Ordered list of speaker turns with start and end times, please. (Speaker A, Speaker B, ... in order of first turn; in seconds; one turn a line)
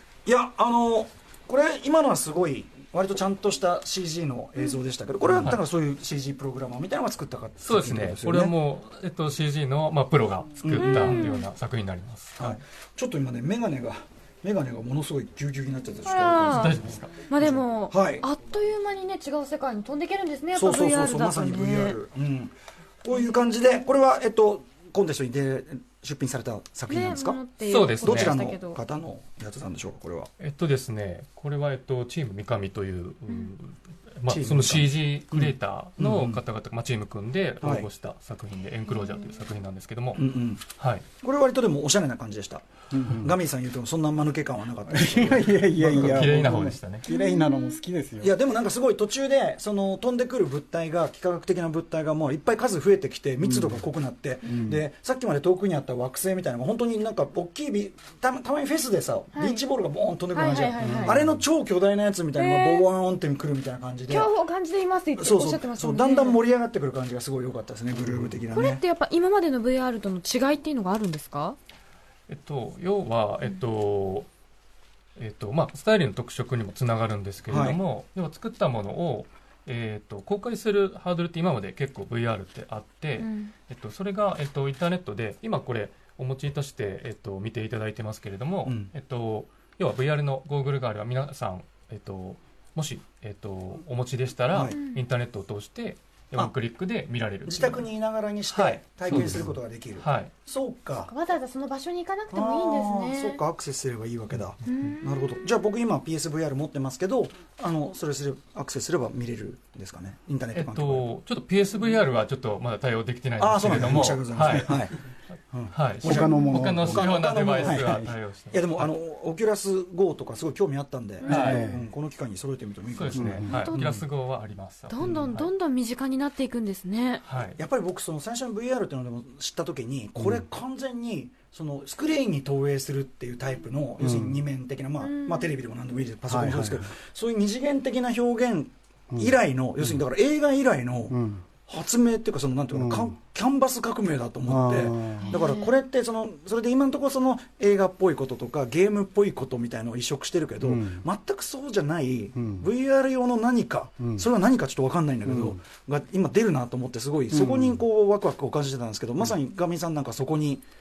Speaker A: 0.2-8.5
Speaker B: 5.3-5.6
Speaker B: 7.6-12.6
Speaker A: 10.6-11.3
Speaker C: 10.8-11.5
Speaker A: 12.4-18.2
Speaker C: 16.0-22.0
Speaker B: 16.5-17.1
Speaker A: 20.5-27.4
Speaker C: 26.9-28.8
Speaker B: 27.6-28.4
Speaker A: 28.0-30.3
Speaker B: 30.4-41.0
Speaker A: 34.3-36.4
Speaker A: 37.6-37.9
Speaker C: 39.0-39.4
Speaker A: 40.1-40.6
Speaker A: 41.1-42.6
Speaker D: 42.9-43.4
Speaker A: 43.2-46.2
Speaker D: 44.9-48.3
Speaker B: 45.7-47.0
Speaker C: 47.1-47.8
Speaker A: 48.2-64.3
Speaker D: 53.4-53.9
Speaker D: 54.4-54.8
Speaker C: 59.3-59.6
Speaker C: 60.3-61.2
Speaker D: 60.8-61.4
Speaker C: 62.3-62.9
Speaker C: 64.1-66.4
Speaker A: 65.2-68.8
Speaker C: 68.5-71.6
Speaker B: 72.3-74.3
Speaker B: 75.2-97.9
Speaker A: 77.5-77.8
Speaker C: 83.2-83.5
Speaker A: 88.6-88.9
Speaker A: 94.5-94.8
Speaker C: 94.7-95.0
Speaker A: 97.4-101.1
Speaker B: 98.5-100.3
Speaker C: 101.0-103.4
Speaker A: 102.3-111.1
Speaker C: 104.7-105.5
Speaker B: 110.5-114.9
Speaker A: 113.4-115.0
Speaker A: 115.5-124.0
Speaker B: 115.7-118.9
Speaker D: 116.0-118.1
Speaker C: 121.2-121.8
Speaker B: 121.2-121.7
Speaker D: 121.2-121.8
Speaker B: 122.9-125.5
Speaker D: 123.1-123.5
Speaker C: 123.4-123.9
Speaker C: 124.9-127.2
Speaker B: 127.2-127.6
Speaker A: 127.6-160.6
Speaker D: 130.2-130.4
Speaker D: 134.0-134.4
Speaker C: 135.0-135.5
Speaker D: 136.3-136.9
Speaker D: 139.1-140.0
Speaker D: 141.1-141.4
Speaker D: 142.7-143.2
Speaker D: 144.4-145.4
Speaker C: 145.2-145.7
Speaker D: 150.6-151.0
Speaker D: 152.3-152.7
Speaker D: 154.0-154.3
Speaker D: 155.2-155.6
Speaker D: 157.3-157.8